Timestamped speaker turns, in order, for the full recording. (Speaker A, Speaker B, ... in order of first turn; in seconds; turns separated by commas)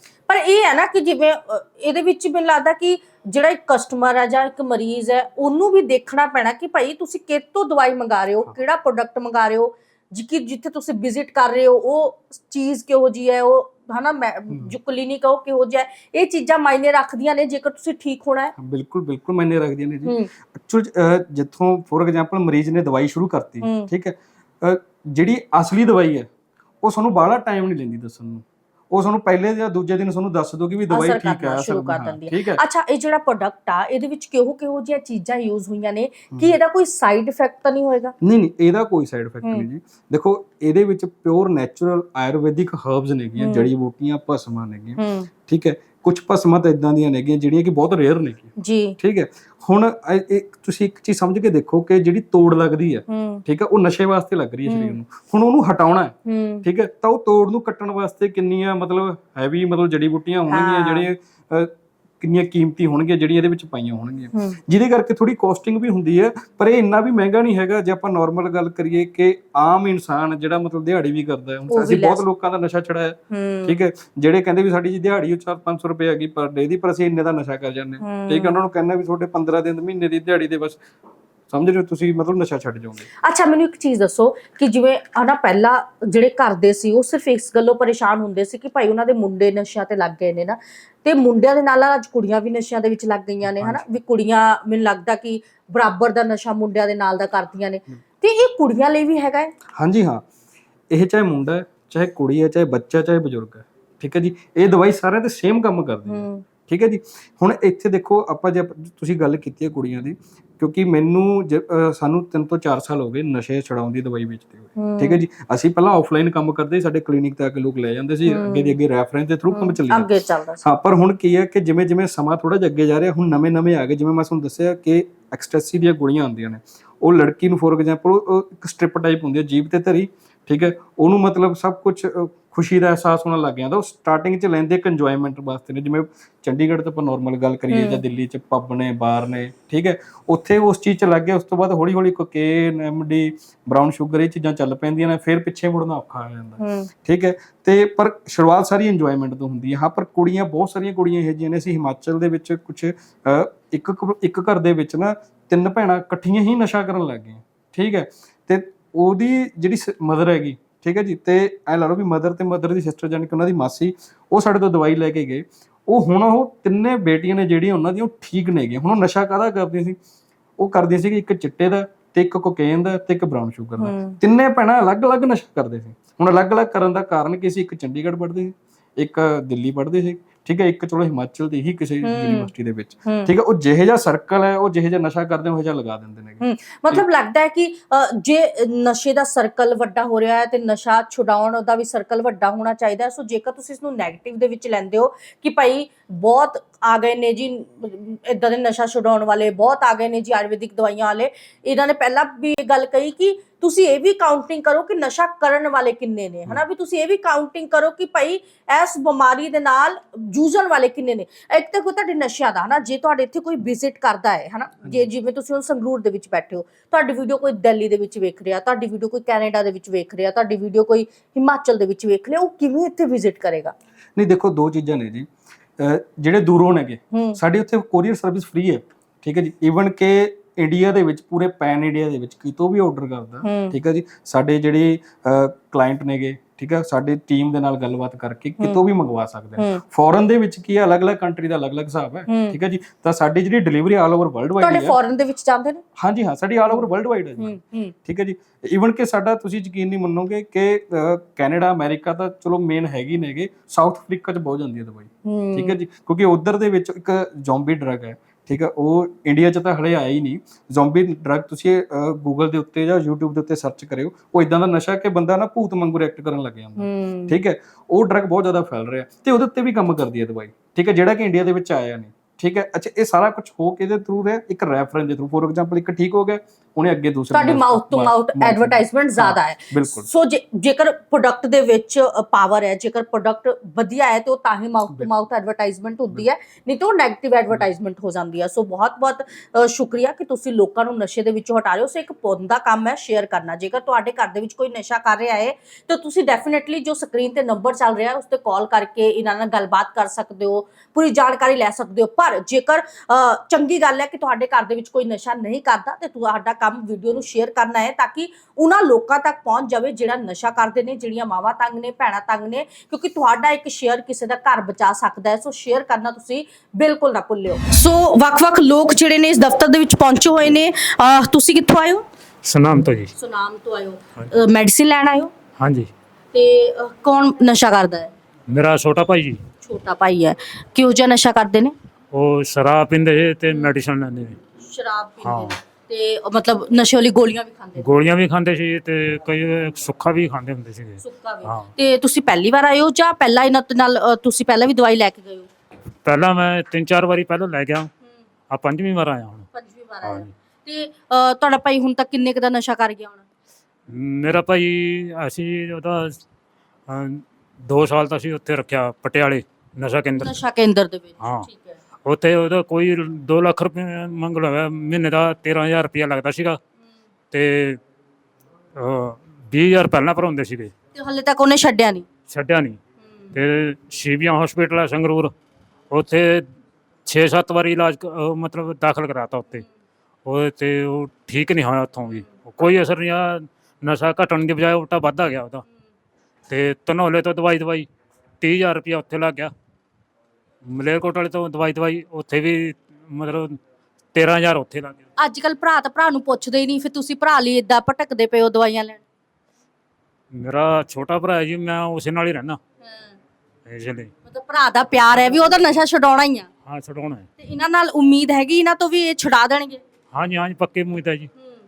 Speaker A: 0.3-18.5, Speaker B: 14.5-14.8, Speaker B: 18.6-26.3, Speaker A: 20.1-20.3, Speaker A: 23.6-23.9, Speaker B: 26.8-32.6, Speaker A: 30.9-38.1, Speaker B: 38.2-80.8, Speaker A: 43.4-43.7, Speaker A: 45.0-45.3, Speaker A: 48.6-49.0, Speaker A: 53.1-53.4, Speaker A: 54.7-55.0, Speaker A: 56.3-56.6, Speaker A: 60.5-61.1, Speaker A: 64.3-64.6, Speaker A: 71.7-72.2, Speaker A: 73.3-73.8, Speaker A: 78.0-78.6, Speaker B: 81.5-83.1, Speaker A: 83.2-99.5, Speaker B: 93.4-93.8, Speaker B: 99.7-100.3, Speaker B: 100.9-120.1, Speaker A: 106.1-106.4, Speaker A: 114.8-115.2, Speaker A: 118.3-118.8, Speaker A: 119.5-120.6, Speaker B: 120.6-170.0, Speaker A: 137.7-138.0, Speaker A: 146.6-146.9, Speaker B: 170.6-187.0, Speaker A: 173.8-174.2, Speaker A: 182.0-182.5, Speaker A: 183.1-183.3, Speaker A: 186.4-223.8, Speaker B: 224.2-245.0, Speaker A: 227.1-227.4, Speaker A: 233.4-233.8, Speaker A: 239.6-239.8, Speaker A: 242.3-242.6, Speaker A: 244.6-245.8, Speaker B: 246.0-280.1, Speaker A: 247.4-247.9, Speaker A: 255.2-255.8, Speaker A: 266.8-267.4, Speaker A: 277.3-322.0, Speaker C: 322.4-323.1, Speaker A: 323.1-325.3, Speaker C: 325.6-325.9, Speaker A: 326.3-328.1, Speaker C: 328.5-329.4, Speaker A: 329.6-331.7, Speaker C: 332.1-334.4, Speaker A: 334.6-337.9, Speaker C: 335.2-335.6, Speaker C: 337.8-341.7, Speaker A: 341.0-345.5, Speaker C: 346.1-347.9, Speaker C: 348.5-349.5, Speaker A: 349.5-353.2, Speaker C: 353.9-356.2, Speaker C: 356.9-360.4, Speaker A: 360.2-361.8, Speaker C: 361.2-361.5, Speaker C: 362.1-366.6, Speaker C: 367.3-367.8, Speaker C: 368.8-370.7, Speaker A: 370.9-372.1, Speaker C: 372.3-372.8, Speaker C: 373.3-375.3, Speaker C: 375.9-376.5, Speaker C: 377.1-379.7, Speaker C: 380.2-385.6, Speaker C: 386.5-387.9, Speaker C: 388.4-389.5, Speaker C: 390.7-393.6, Speaker C: 394.1-395.0, Speaker A: 395.2-399.0, Speaker C: 400.3-402.6, Speaker A: 402.8-403.2, Speaker C: 403.7-404.1, Speaker A: 404.3-406.5, Speaker C: 406.7-407.3, Speaker A: 407.4-409.8, Speaker C: 410.1-411.3